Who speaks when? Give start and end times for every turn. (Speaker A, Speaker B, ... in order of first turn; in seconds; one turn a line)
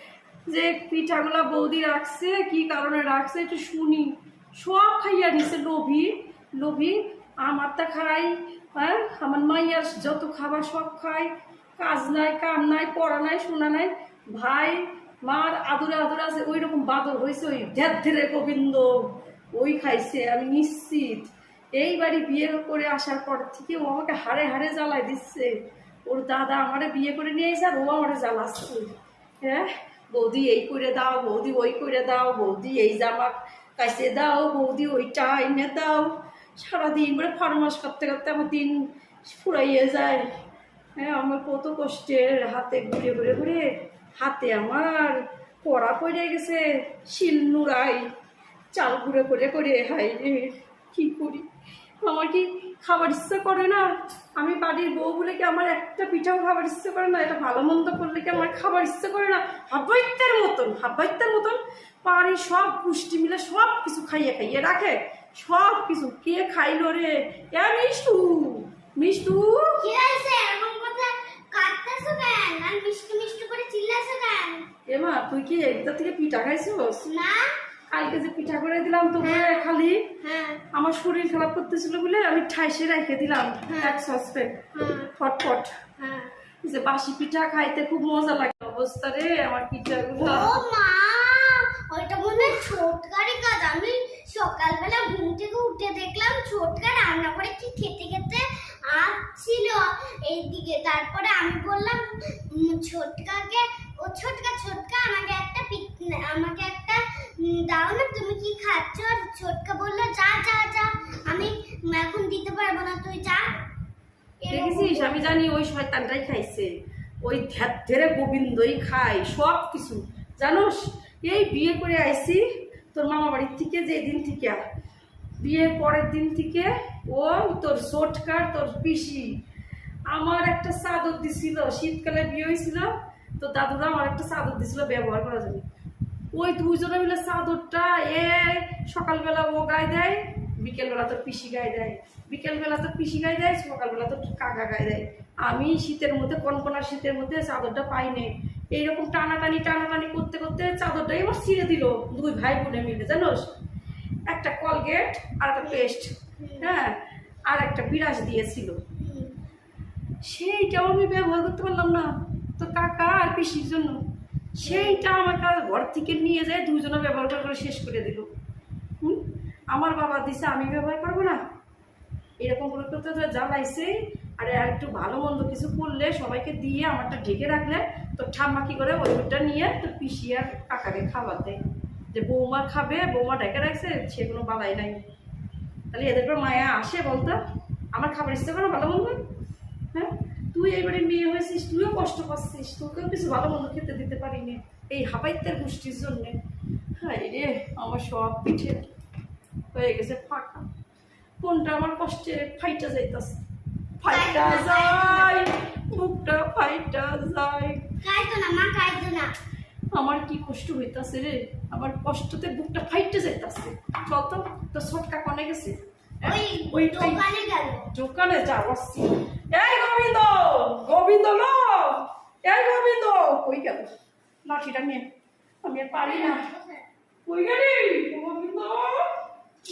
Speaker A: 0.5-25.6
Speaker A: 26.1-40.3
Speaker A: 41.0-43.6
Speaker A: 44.2-48.1
Speaker A: 48.7-51.5
Speaker A: 52.1-69.8
Speaker B: 69.8-74.7
Speaker A: 74.9-77.1
Speaker B: 77.0-77.5
Speaker A: 77.9-80.2
Speaker B: 79.2-79.7
Speaker B: 80.2-80.6
Speaker A: 80.7-85.8
Speaker B: 83.7-84.0
Speaker B: 84.7-85.1
Speaker B: 86.0-86.3
Speaker A: 86.6-90.6
Speaker B: 90.2-113.5
Speaker B: 114.4-115.2
Speaker A: 114.5-116.7
Speaker A: 117.2-122.4
Speaker A: 122.9-124.6
Speaker A: 125.4-129.3
Speaker A: 130.1-135.7
Speaker A: 136.3-153.5
Speaker A: 154.3-157.0
Speaker B: 156.4-156.7
Speaker A: 157.5-158.8
Speaker B: 159.0-159.3
Speaker A: 160.2-164.0
Speaker A: 164.6-168.3
Speaker B: 164.7-165.0
Speaker A: 169.7-171.4
Speaker A: 172.4-181.6
Speaker A: 182.1-185.0
Speaker A: 185.9-187.4
Speaker A: 187.9-189.2
Speaker A: 189.9-196.4
Speaker A: 197.0-198.9
Speaker A: 199.7-200.7
Speaker A: 201.4-203.4
Speaker A: 204.0-207.9
Speaker B: 204.1-205.4
Speaker B: 208.0-209.3
Speaker A: 209.9-217.2
Speaker B: 216.2-217.9
Speaker A: 217.9-223.9
Speaker A: 224.4-225.1
Speaker A: 225.6-226.5
Speaker B: 226.0-226.7
Speaker A: 227.3-229.1